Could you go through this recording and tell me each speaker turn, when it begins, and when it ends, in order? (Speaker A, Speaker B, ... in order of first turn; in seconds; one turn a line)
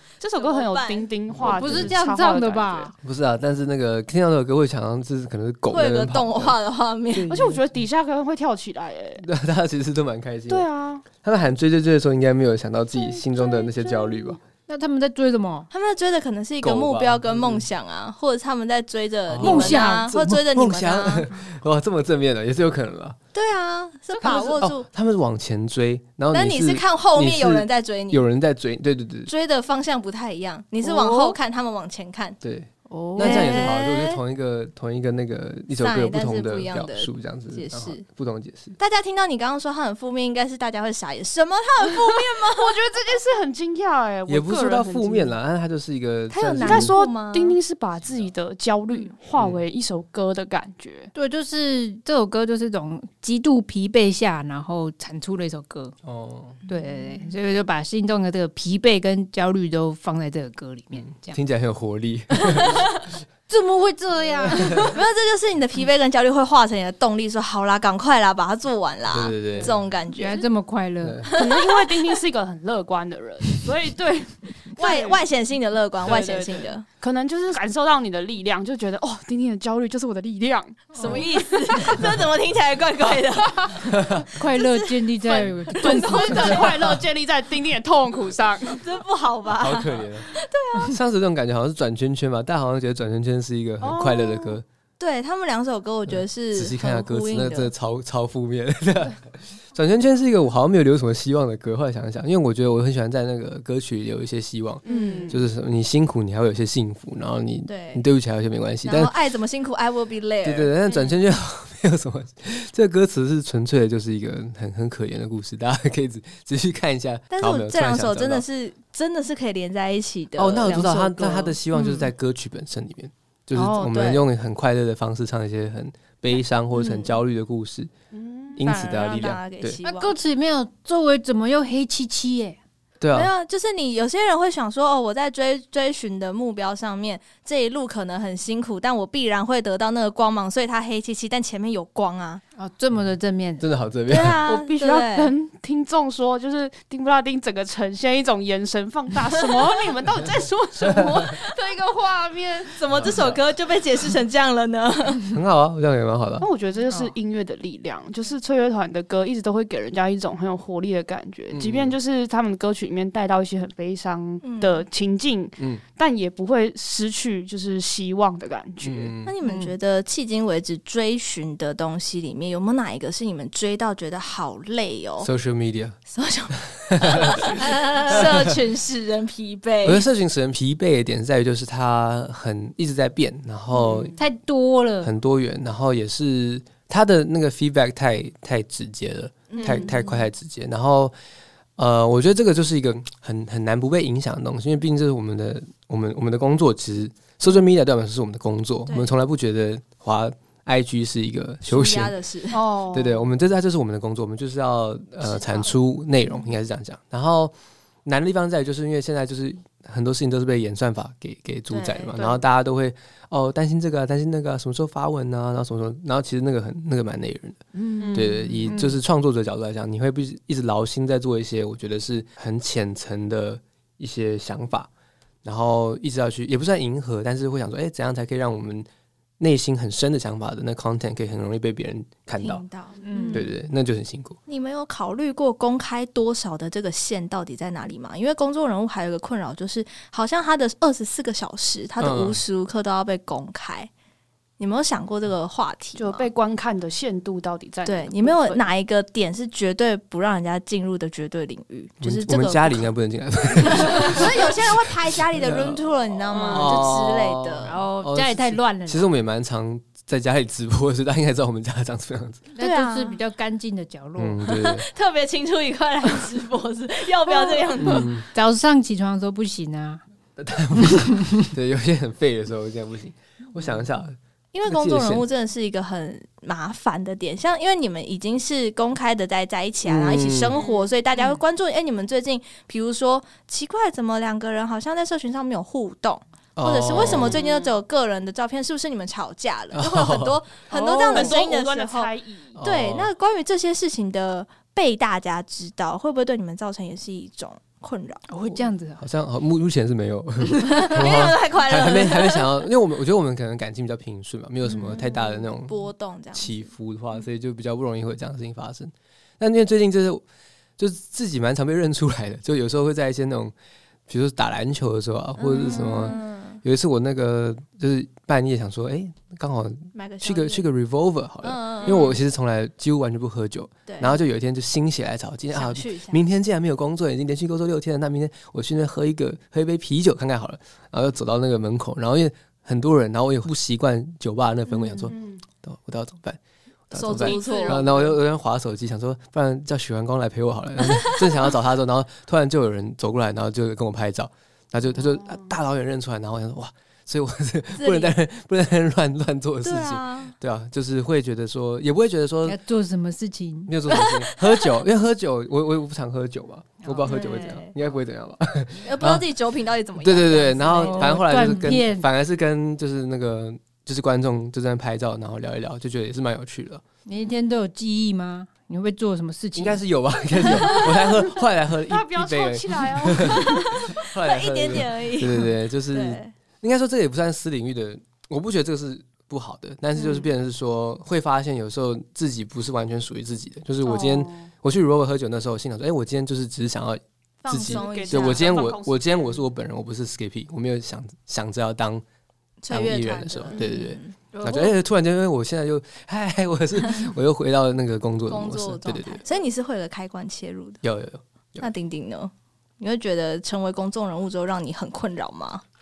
Speaker A: 0.2-2.9
Speaker B: 0.2-1.1
Speaker C: 1.3-1.9
Speaker D: 1.4-2.9
Speaker C: 3.0-6.6
Speaker B: 5.7-7.3
Speaker C: 7.1-7.6
Speaker A: 7.3-9.2
Speaker C: 9.2-10.7
Speaker A: 10.5-11.1
Speaker C: 11.2-14.4
Speaker A: 12.9-14.3
Speaker D: 14.7-15.7
Speaker B: 15.7-21.3
Speaker C: 16.6-17.6
Speaker C: 19.3-23.2
Speaker D: 19.4-20.1
Speaker B: 23.3-24.8
Speaker C: 24.3-29.3
Speaker B: 26.3-28.2
Speaker B: 29.3-32.4
Speaker A: 30.8-31.4
Speaker C: 32.4-38.8
Speaker D: 32.9-33.6
Speaker B: 33.2-34.2
Speaker B: 35.8-38.0
Speaker B: 38.8-42.8
Speaker A: 41.8-45.3
Speaker C: 44.3-46.9
Speaker B: 46.3-47.6
Speaker A: 46.6-51.1
Speaker C: 49.4-49.6
Speaker D: 51.1-55.9
Speaker C: 56.0-56.6
Speaker D: 56.7-61.4
Speaker C: 60.9-62.9
Speaker D: 63.5-65.0
Speaker B: 64.8-70.4
Speaker C: 69.1-69.7
Speaker D: 70.1-71.2
Speaker C: 71.0-71.3
Speaker B: 71.2-72.1
Speaker A: 71.3-75.2
Speaker B: 74.8-76.8
Speaker A: 76.0-82.2
Speaker B: 81.0-86.8
Speaker D: 81.0-81.2
Speaker C: 83.7-84.3
Speaker D: 84.3-86.7
Speaker A: 85.3-88.8
Speaker C: 86.6-87.0
Speaker B: 88.7-91.0
Speaker C: 89.6-90.3
Speaker C: 90.8-94.6
Speaker A: 93.8-94.5
Speaker B: 95.0-97.7
Speaker C: 96.1-109.1
Speaker A: 104.8-105.4
Speaker B: 104.9-105.4
Speaker B: 107.7-108.0
Speaker B: 108.8-111.1
Speaker C: 110.4-118.4
Speaker B: 117.3-121.6
Speaker C: 120.3-127.9
Speaker D: 121.7-122.0
Speaker B: 123.5-124.2
Speaker B: 126.7-127.2
Speaker A: 128.1-128.6
Speaker C: 128.6-129.8
Speaker B: 128.6-130.2
Speaker D: 129.8-132.6
Speaker C: 133.0-133.3
Speaker B: 133.1-142.4
Speaker D: 142.6-143.6
Speaker C: 143.6-144.4
Speaker B: 144.1-145.3
Speaker A: 144.4-151.5
Speaker C: 150.9-151.2
Speaker B: 151.2-155.4
Speaker C: 152.9-153.4
Speaker C: 155.3-156.5
Speaker A: 156.4-169.1
Speaker C: 161.5-161.9
Speaker B: 164.4-164.8
Speaker C: 168.8-169.3
Speaker B: 169.2-175.3
Speaker D: 169.4-169.7
Speaker C: 175.2-176.0
Speaker B: 176.1-180.0
Speaker C: 176.7-178.5
Speaker C: 179.8-184.1
Speaker B: 183.8-184.1
Speaker D: 184.2-185.1
Speaker C: 185.0-191.1
Speaker B: 189.5-190.2
Speaker A: 189.6-189.9
Speaker C: 191.8-202.1
Speaker B: 198.9-199.1
Speaker B: 201.7-202.6
Speaker A: 202.5-203.3
Speaker C: 202.9-207.5
Speaker B: 205.2-205.7
Speaker C: 208.0-217.6
Speaker B: 211.7-212.3
Speaker A: 218.0-218.5
Speaker C: 218.1-224.9
Speaker D: 218.6-219.0
Speaker C: 225.4-228.9
Speaker C: 229.4-232.6
Speaker B: 232.4-233.5
Speaker D: 233.0-233.5
Speaker C: 233.3-234.4
Speaker B: 234.5-243.9
Speaker C: 242.0-242.4
Speaker B: 244.6-246.3
Speaker A: 246.0-248.7
Speaker B: 247.8-252.9
Speaker C: 252.0-255.8
Speaker B: 253.6-257.7
Speaker A: 256.3-256.9
Speaker C: 256.5-262.5
Speaker D: 257.6-259.1
Speaker D: 262.6-264.4
Speaker B: 262.6-263.2
Speaker C: 264.2-264.9
Speaker B: 264.4-268.2
Speaker C: 267.8-268.2
Speaker D: 268.3-270.0
Speaker C: 270.4-275.2
Speaker D: 270.8-271.4
Speaker B: 274.5-298.2
Speaker C: 279.8-280.6
Speaker A: 280.5-281.4
Speaker C: 286.6-287.4
Speaker A: 286.9-287.7
Speaker C: 289.7-290.4
Speaker D: 290.7-291.4
Speaker A: 290.7-292.6
Speaker C: 292.6-293.1
Speaker D: 298.3-299.0
Speaker C: 299.0-305.8
Speaker B: 300.6-302.5
Speaker B: 304.9-306.7
Speaker C: 306.3-310.2
Speaker C: 310.8-313.5
Speaker C: 314.1-336.4
Speaker B: 315.4-316.6
Speaker B: 319.9-320.6
Speaker B: 321.4-322.1
Speaker A: 321.8-322.1
Speaker B: 323.9-324.2
Speaker B: 325.5-326.2
Speaker B: 334.8-335.1
Speaker A: 335.1-335.4
Speaker C: 336.9-352.6
Speaker B: 336.9-338.0
Speaker A: 337.1-338.1
Speaker A: 345.0-345.5
Speaker B: 347.8-348.1
Speaker B: 349.6-350.3
Speaker D: 352.4-353.7
Speaker C: 353.7-359.2
Speaker B: 353.9-354.7
Speaker D: 356.8-357.3
Speaker B: 357.1-357.7
Speaker B: 358.8-361.8
Speaker C: 360.0-366.8
Speaker D: 360.8-362.1
Speaker D: 367.1-369.8
Speaker C: 369.5-392.0
Speaker A: 371.9-373.8
Speaker B: 373.2-376.3
Speaker A: 383.8-384.5
Speaker B: 387.4-388.5
Speaker A: 387.6-389.4
Speaker B: 392.6-394.1
Speaker C: 392.7-399.2
Speaker A: 393.5-393.8
Speaker D: 394.3-394.7
Speaker B: 398.3-400.8
Speaker C: 400.8-401.7
Speaker B: 401.6-405.6